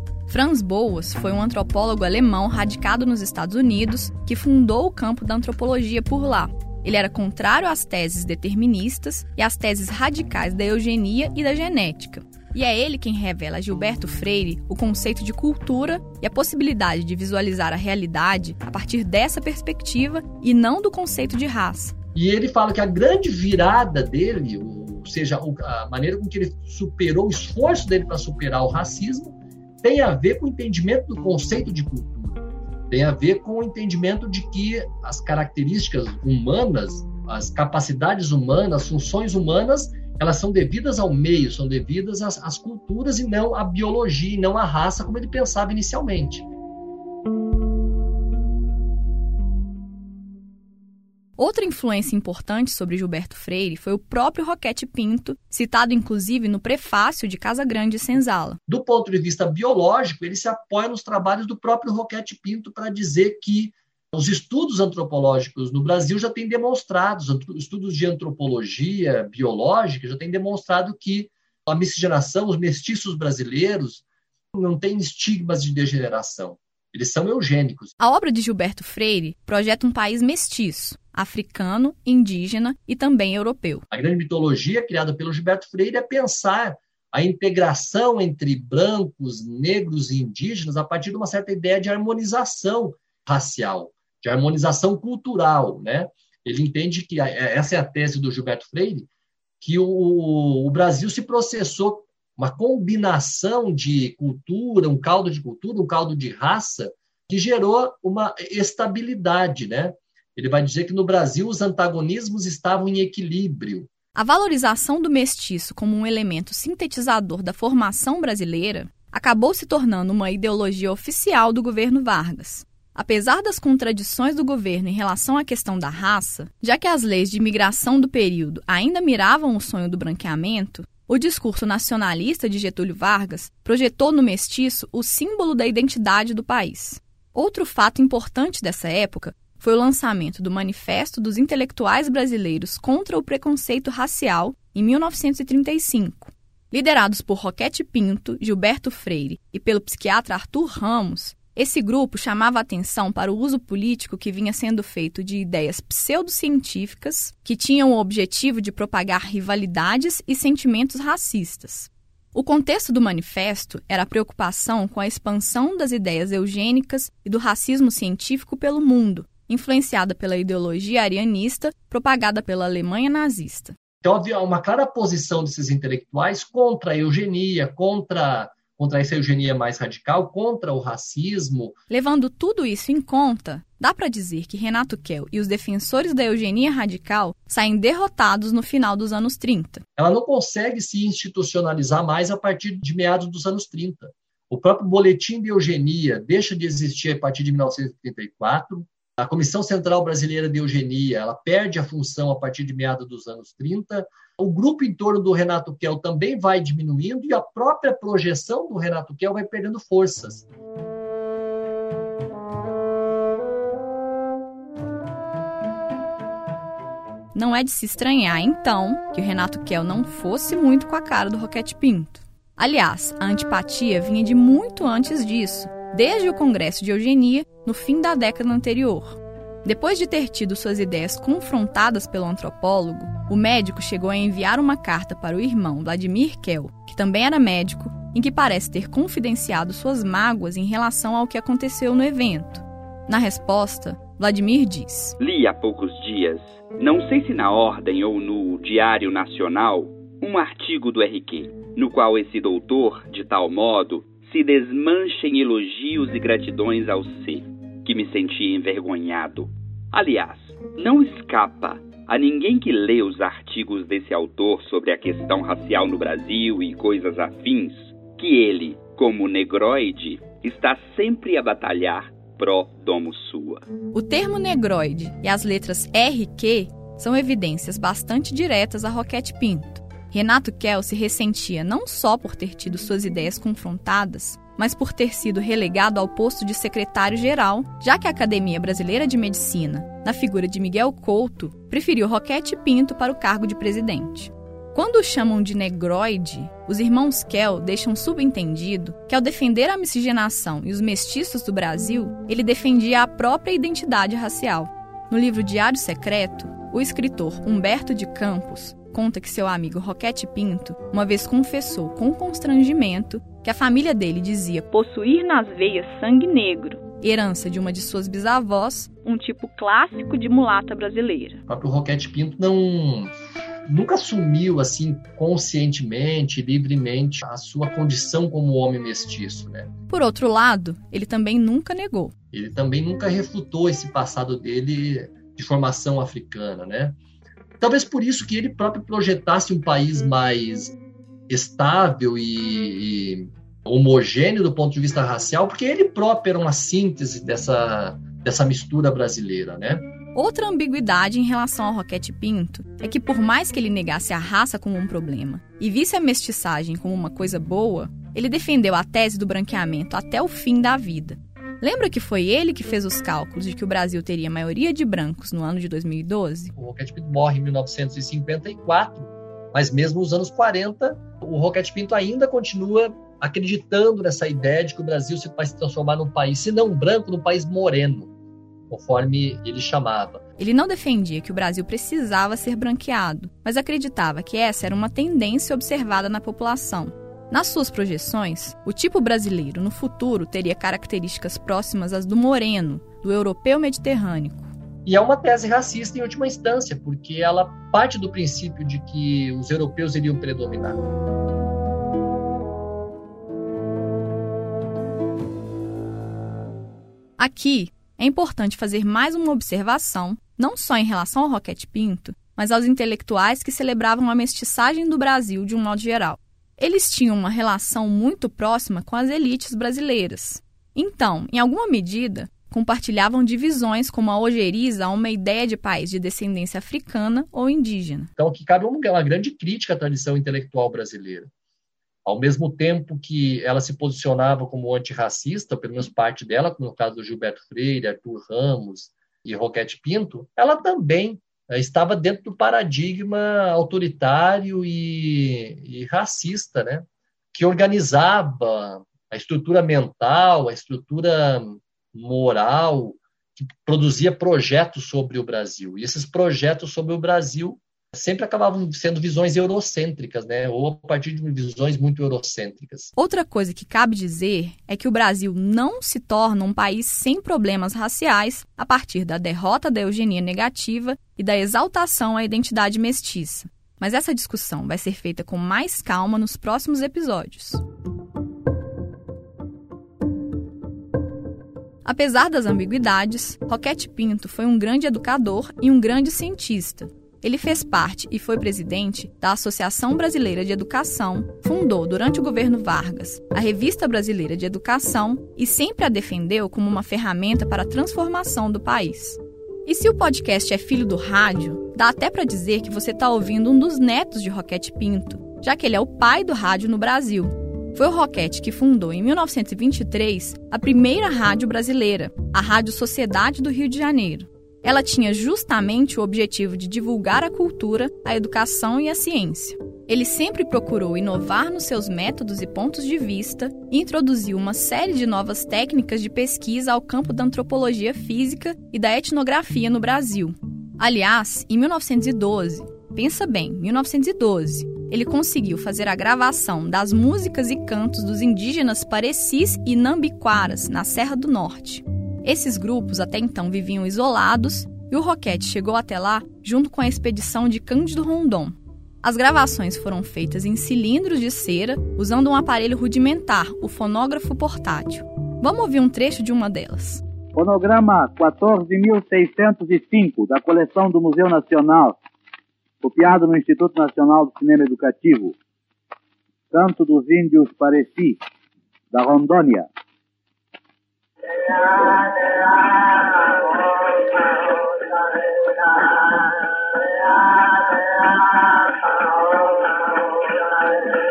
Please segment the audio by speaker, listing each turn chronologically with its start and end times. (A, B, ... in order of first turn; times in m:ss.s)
0:00.3-0:21.9 A
0:22.1-0:46.4 B
0:51.4-0:58.6 A
0:58.7-1:14.0 B
1:14.5-1:17.9 B
1:18.0-1:23.8 A
1:23.9-1:39.1 B
1:39.6-1:53.9 B
1:54.1-2:53.8 A
2:54.0-3:01.8 B
3:01.9-3:09.8 A
3:10.0-3:30.4 B
3:37.3-4:05.2 A
4:05.2-4:33.6 C
4:33.9-5:14.8 A
5:14.8-5:16.8 D
5:17.0-5:19.1 A
5:19.1-5:21.4 D
5:21.5-5:23.1 B
5:23.7-5:29.7 B
5:29.9-5:32.1 A
5:32.3-5:37.0 B
5:37.6-5:40.7 B
5:41.3-5:49.9 B
5:50.1-6:06.5 A
6:06.6-6:18.1 B
6:18.7-6:20.2 B
6:20.4-6:34.5 A
6:34.8-6:40.8 B
6:47.2-7:08.1 A
7:08.2-7:11.3 B
7:12.0-7:42.9 B
7:43.0-7:57.6 A
8:01.8-9:17.0 A
9:17.3-9:22.0 E
9:22.8-9:25.4 E
9:26.5-9:28.2 E
9:28.9-9:29.7 E